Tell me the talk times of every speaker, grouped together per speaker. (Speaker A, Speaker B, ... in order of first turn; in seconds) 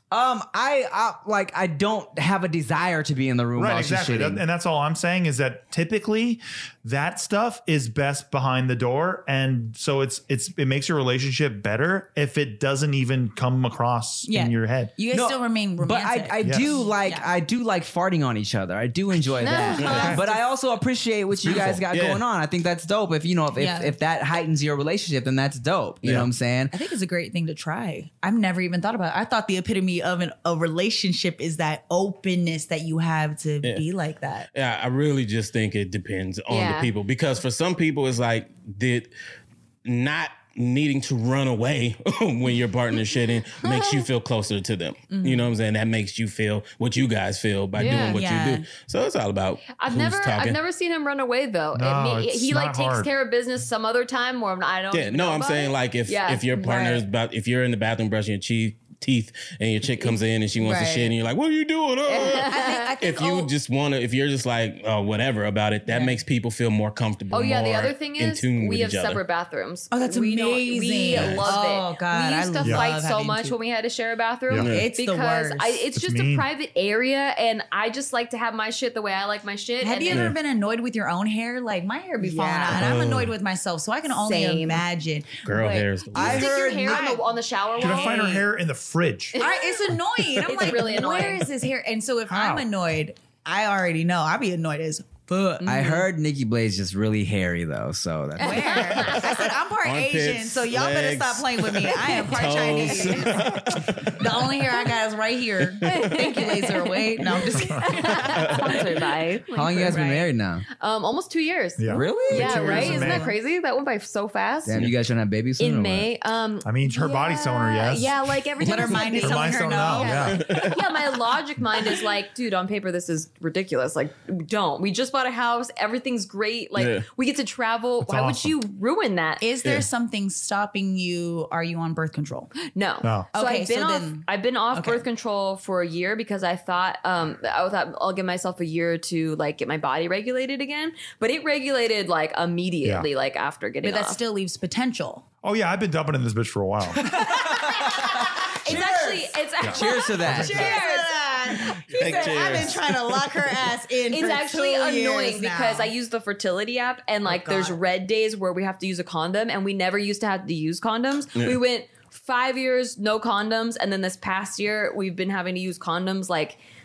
Speaker A: 0.1-4.4, 15.1-26.8, 86.1-87.2, 95.6-99.1, 109.5-110.7, 111.9-113.3, 114.7-116.1, 147.0-150.8
Speaker B: 3.6-14.9, 16.4-16.8, 20.0-20.4, 21.4-21.8, 26.0-26.3, 51.7-53.1, 71.2-71.4, 72.6-72.9, 76.0-76.5, 82.7-83.2, 87.8-89.4, 92.3-92.7, 107.6-107.9, 111.8-113.3, 116.6-118.2, 119.0-120.5, 128.0-128.6, 133.0-133.3, 142.8-143.1, 145.4-147.2, 149.6-150.5, 152.0-152.7
Speaker C: 14.3-17.3, 23.6-24.0, 26.7-34.5, 45.1-45.5, 47.8-48.7, 56.5-57.0, 60.0-61.1, 62.2-63.5, 65.9-66.2, 69.9-73.6, 74.6-75.9, 79.8-87.3, 87.8-88.2, 89.4-96.1, 98.4-108.8, 109.7-110.3, 118.6-120.4, 129.4-132.5, 133.3-135.0, 143.8-145.3, 148.7-149.2, 149.8-155.9, 157.3-157.8
Speaker D: 19.4-20.3, 36.5-36.9, 43.6-44.1, 47.8-48.2, 49.8-56.5, 62.1-62.9, 67.3-80.3, 82.2-82.8, 84.2-84.8, 86.2-88.5, 89.3-91.5, 98.4-99.4, 102.3-103.5, 105.8-110.0, 110.8-114.9, 115.6-129.4, 132.7-144.2, 147.1-152.4, 154.1-166.6
Speaker E: 19.8-20.1, 21.7-22.2, 34.5-39.1, 39.9-50.6, 54.9-69.2, 71.1-71.5, 74.6-74.9, 80.1-80.3, 82.7-83.3, 85.5-86.5, 90.4-90.8, 99.1-104.4, 108.3-108.8, 112.3-113.2, 120.1-121.0, 126.8-127.1, 129.6-129.9, 151.7-153.5